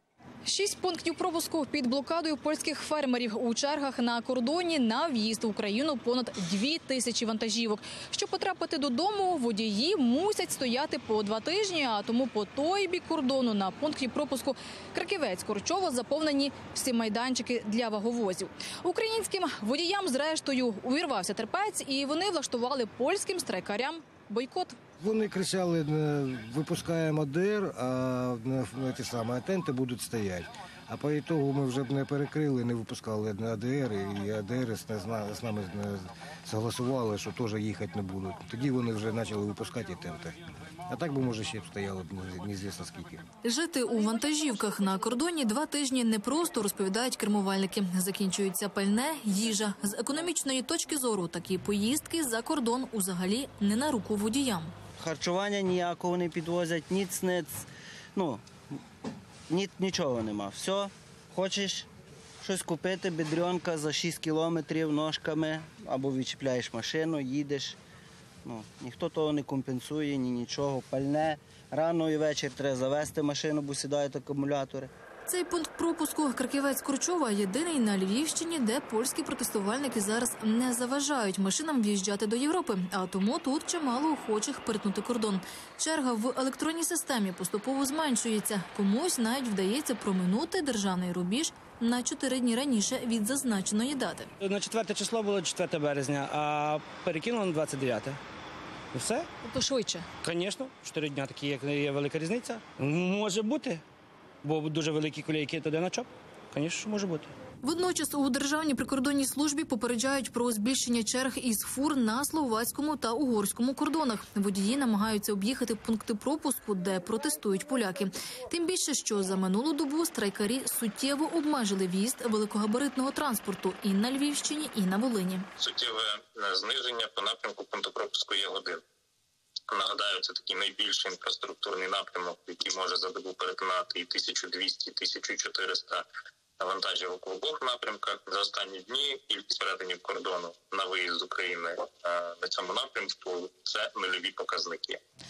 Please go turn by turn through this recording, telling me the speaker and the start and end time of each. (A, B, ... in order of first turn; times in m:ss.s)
0:00.4-0:24.8 A
0:25.0-0:43.2 B
0:43.4-0:54.7 A
0:55.0-0:58.4 C
0:59.5-1:01.9 C
1:02.4-1:07.8 C
1:08.4-1:14.9 C
1:15.3-1:34.3 A
1:34.4-1:38.2 D
1:38.9-1:39.3 D
1:39.4-1:40.0 A
1:40.2-1:43.8 D
1:44.4-1:47.3 D
1:47.6-2:05.5 A
2:05.6-2:08.8 E
2:09.7-2:16.0 E
2:16.6-2:25.0 E